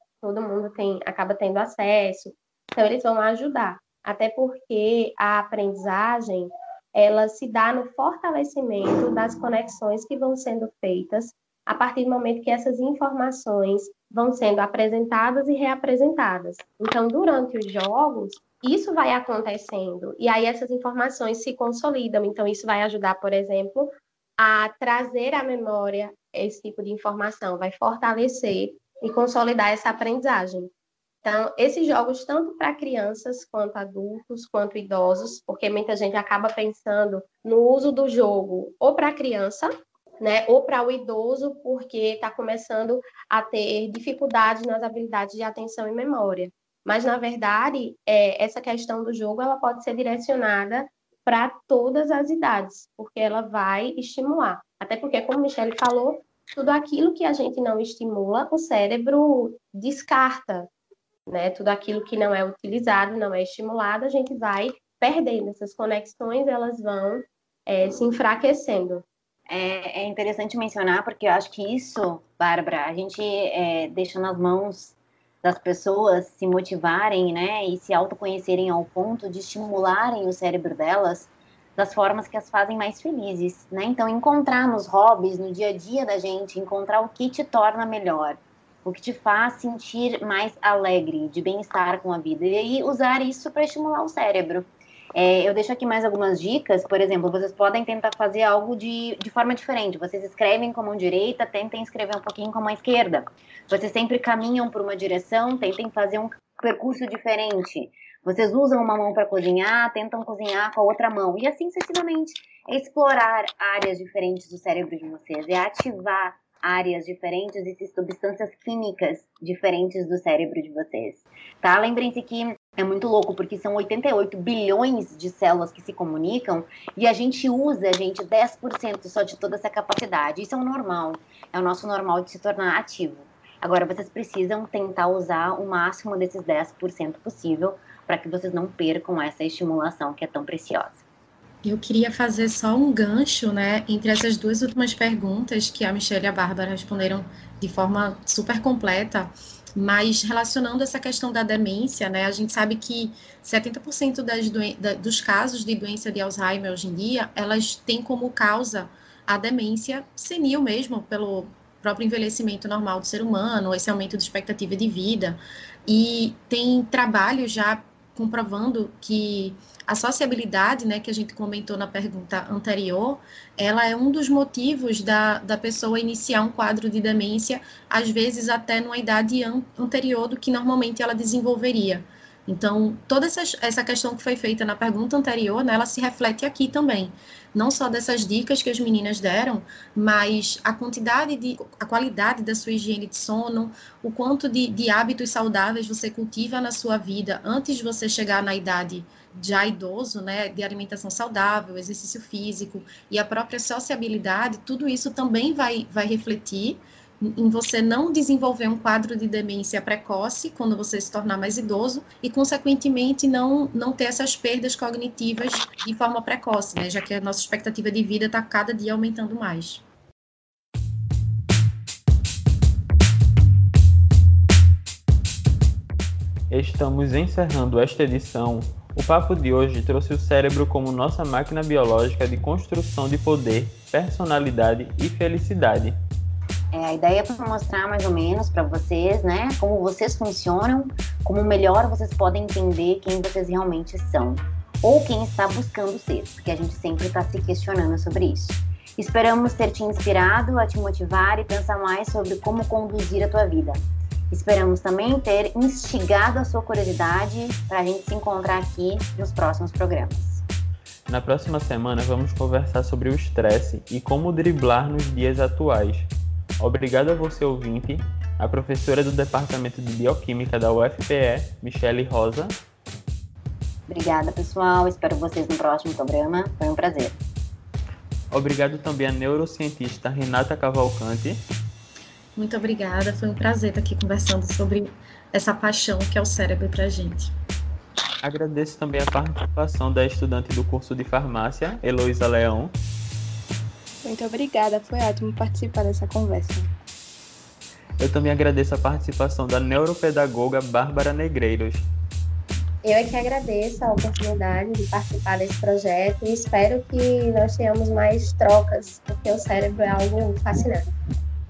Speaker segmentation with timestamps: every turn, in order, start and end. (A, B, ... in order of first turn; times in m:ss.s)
0:00.2-0:30.7 A
0:31.2-0:39.7 A
0:40.2-1:00.7 A
1:01.3-1:09.0 A
1:09.5-2:21.0 B
2:21.6-3:39.8 C
3:46.5-3:56.0 D
3:56.7-4:13.8 B
4:14.3-4:20.4 B
4:21.1-4:32.6 D
4:33.9-4:37.2 B
4:38.3-4:41.4 D
4:42.4-4:47.3 C
4:48.2-4:52.7 D
4:54.0-4:56.7 E
4:58.0-5:01.8 D
5:02.8-5:10.8 A